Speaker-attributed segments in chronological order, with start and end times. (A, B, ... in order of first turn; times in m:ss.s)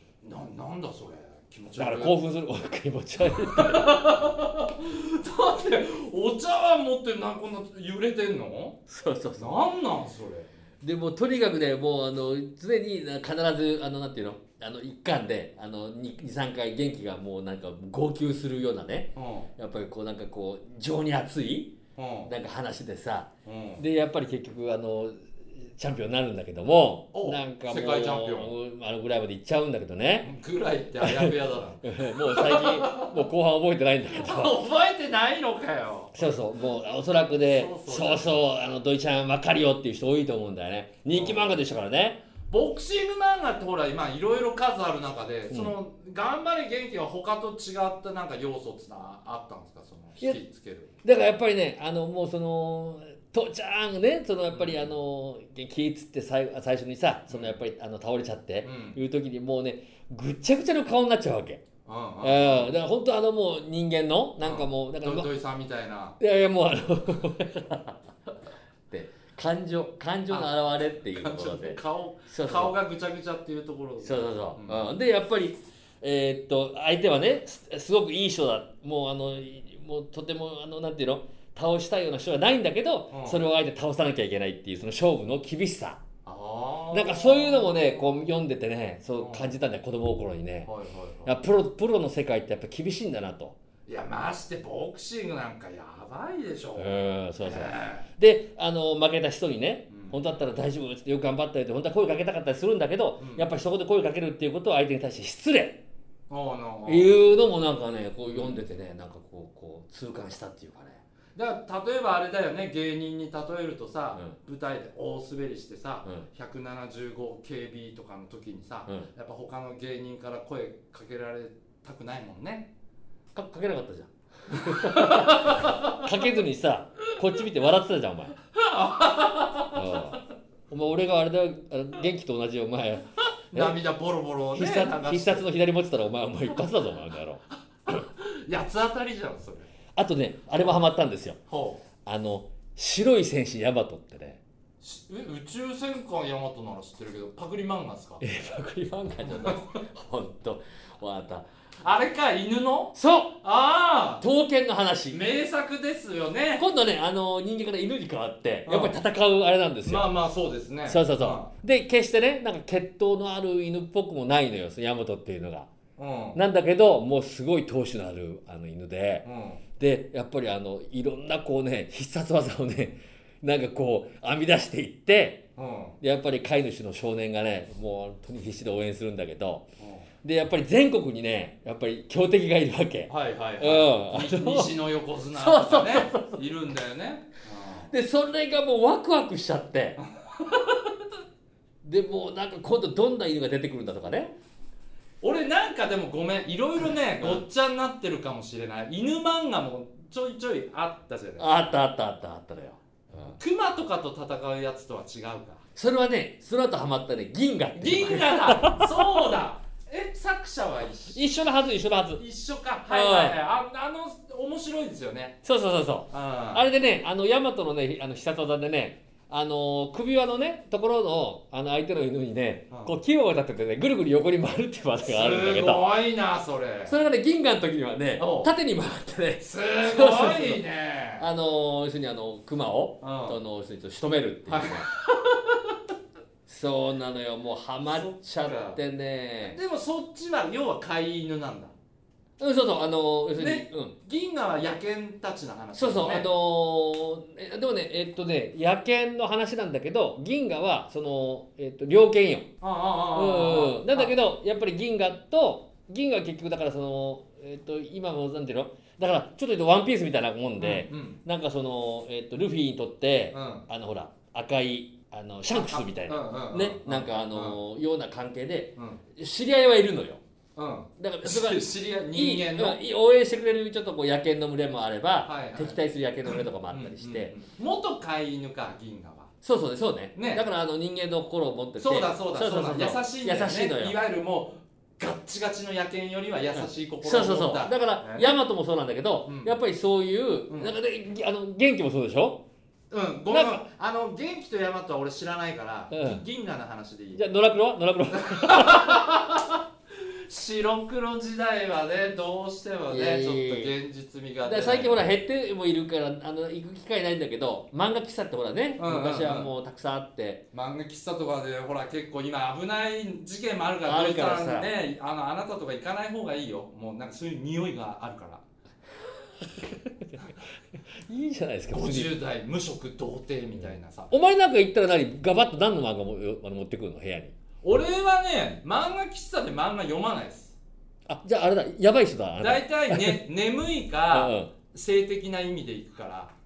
0:00.2-0:02.2 A
0:01.8-0:04.2 B
0:03.3-0:08.8 A
0:08.9-0:09.6 B
0:09.4-0:10.5 A
0:10.8-0:21.8 B
0:19.2-0:19.5 A
0:22.0-0:22.3 A
0:22.3-0:30.3 B
0:23.4-0:23.8 A
0:27.1-0:28.5 A
0:30.2-0:33.2 A
0:31.0-0:31.3 B
0:31.8-0:34.6 B
0:34.1-0:36.3 A
0:36.2-0:42.2 B
0:37.4-0:38.4 A
0:41.1-0:41.6 A
0:42.5-0:51.0 A
0:51.0-1:01.6 B
0:54.5-0:54.9 A
0:57.3-0:57.6 A
0:58.6-0:59.0 A
1:01.9-1:02.7 A
1:02.2-1:05.3 B
1:04.4-1:06.2 A
1:06.2-1:08.0 B
1:08.9-1:12.8 B
1:10.3-1:14.9 A
1:14.0-1:26.0 B
1:23.1-1:23.4 A
1:26.3-1:28.3 A
1:26.9-1:30.7 B
1:29.2-1:29.6 A
1:30.7-1:31.3 A
1:31.3-1:33.6 B
1:33.9-1:38.1 A
1:36.8-1:45.8 B
1:39.9-1:40.2 A
1:43.2-1:43.5 A
1:46.3-1:47.2 A
1:46.9-1:51.0 B
1:48.3-1:48.6 A
1:51.4-2:02.7 A
2:03.3-2:08.4 B
2:04.5-2:06.1 A
2:08.5-2:10.1 A
2:09.7-2:13.8 B
2:13.5-2:15.5 A
2:14.6-2:17.4 B
2:17.9-2:19.7 A
2:20.0-2:21.4 B
2:21.5-2:21.8 A
2:22.0-2:24.4 B
2:24.8-2:28.2 A
2:28.2-2:31.5 B
2:29.2-2:29.8 A
2:31.8-2:34.2 A
2:33.0-2:33.4 B
2:34.2-2:35.2 B
2:35.1-2:36.6 A
2:36.6-2:40.1 B
2:38.7-2:39.0 A
2:39.8-2:41.5 A
2:40.9-2:45.7 B
2:46.0-2:46.4 A
2:46.4-2:49.3 B
2:49.2-2:49.6 A
2:49.8-2:55.4 B
2:55.6-2:56.0 A
2:56.0-2:59.7 B
2:59.8-3:00.1 A
3:00.2-3:04.8 B
3:03.1-3:07.9 A
3:05.3-3:06.4 B
3:07.9-3:10.0 B
3:10.0-3:10.9 A
3:11.8-3:14.4 B
3:15.2-3:21.8 A
3:21.4-3:23.4 B
3:23.3-3:25.6 A
3:25.8-3:29.2 B
3:27.8-3:31.2 A
3:31.1-3:32.2 B
3:32.2-3:35.4 A
3:32.9-3:33.4 B
3:35.4-3:45.9 B
3:36.1-3:36.7 A
3:45.0-3:47.0 A
3:46.9-3:50.6 B
3:48.2-3:48.5 A
3:49.4-3:51.3 A
3:51.2-3:54.9 B
3:53.0-3:53.4 A
3:54.5-3:55.8 A
3:56.5-3:59.6 B
3:57.9-3:58.8 A
3:59.5-4:01.7 A
4:02.4-4:04.0 B
4:03.4-4:06.3 A
4:05.8-4:12.5 B
4:12.6-4:14.2 A
4:13.1-4:30.2 B
4:20.6-4:21.2 A
4:23.3-4:23.7 A
4:25.5-4:27.6 A
4:28.8-4:29.0 A
4:30.6-4:32.8 A
4:31.0-4:37.3 B
4:35.2-4:39.3 A
4:39.4-4:44.0 B
4:40.2-4:40.4 A
4:41.8-4:48.3 A
4:47.0-4:52.4 B
4:49.3-4:49.6 A
4:52.9-4:57.3 A
4:53.3-4:53.6 B
4:55.9-4:56.2 B
4:57.2-4:59.0 B
4:58.1-5:05.1 A
5:02.9-5:03.7 B
5:04.4-5:10.4 B
5:08.8-5:09.5 A
5:10.5-5:18.4 A
5:13.9-5:14.7 B
5:19.4-5:20.4 B
5:21.0-5:22.1 B
5:21.7-5:24.1 A
5:24.1-5:27.4 B
5:27.6-5:30.6 A
5:31.1-5:33.2 B
5:32.4-5:36.3 A
5:34.1-5:34.5 B